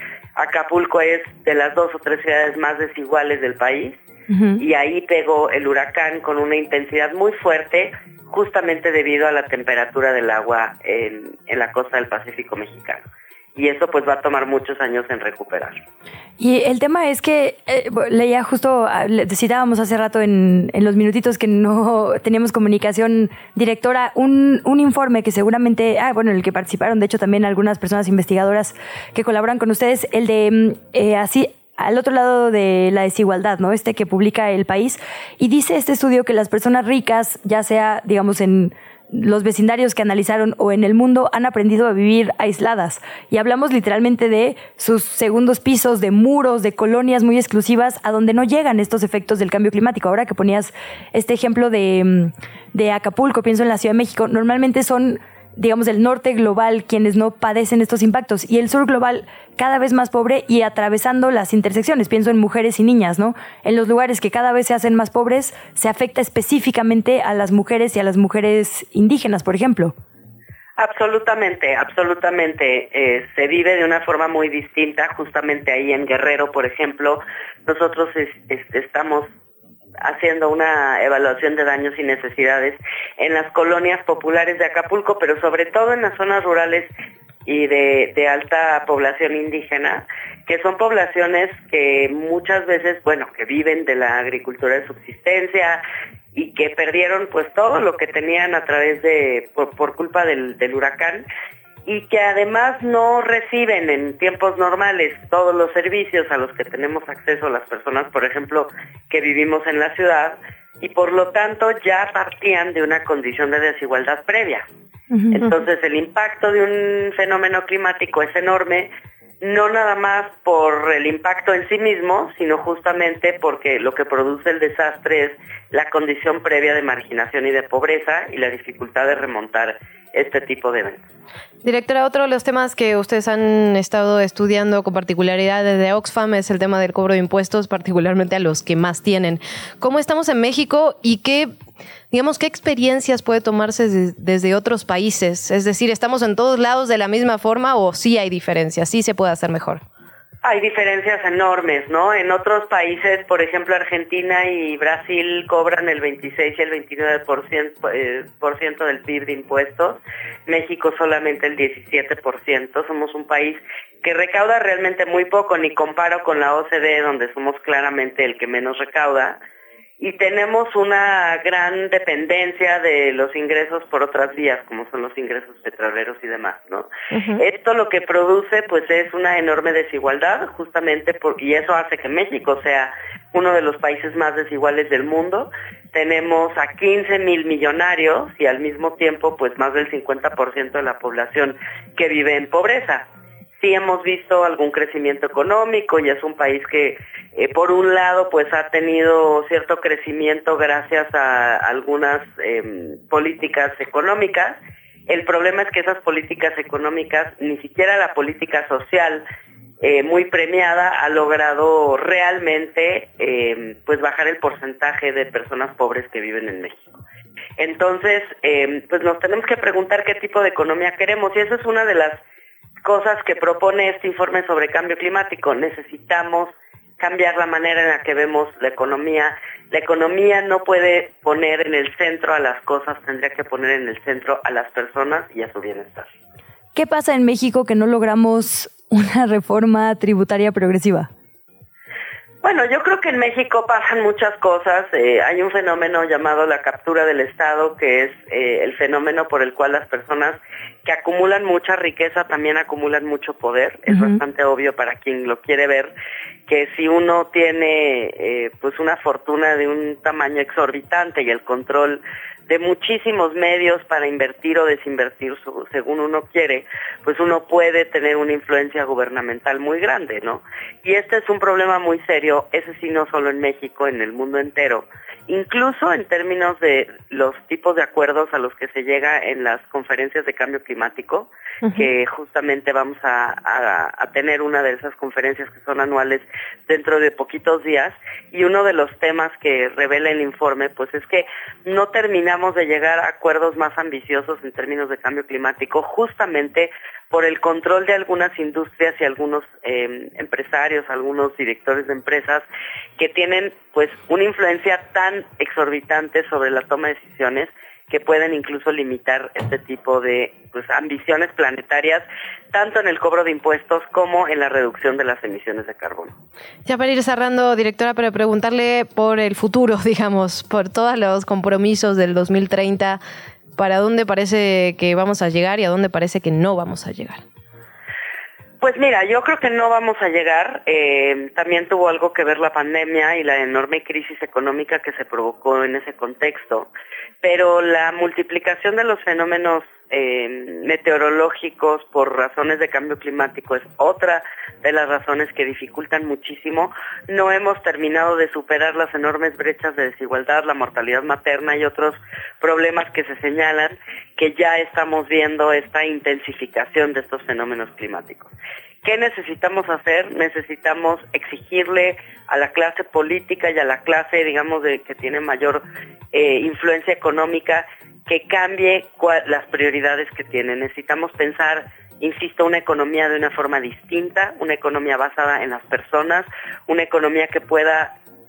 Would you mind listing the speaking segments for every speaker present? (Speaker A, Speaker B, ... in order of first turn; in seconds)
Speaker A: 0.4-4.0, 4.6-15.8, 70.8-79.3, 80.0-86.9, 87.5-95.8, 96.3-101.2, 101.9-114.7, 115.3-118.9, 119.4-131.0, 150.4-169.4, 170.0-193.1, 193.6-209.2, 209.8-216.9, 217.6-222.2, 222.8-236.1, 242.4-255.9, 256.5-302.4, 303.0-316.2, 328.6-336.7, 337.2-358.3, 358.8-365.6, 366.1-377.9
Speaker B: 4.3-4.6, 16.4-69.9, 115.1-115.5, 236.8-241.1, 253.9-254.2
Speaker C: 131.6-141.5, 142.1-149.8, 177.1-177.4, 316.7-323.0, 323.6-327.2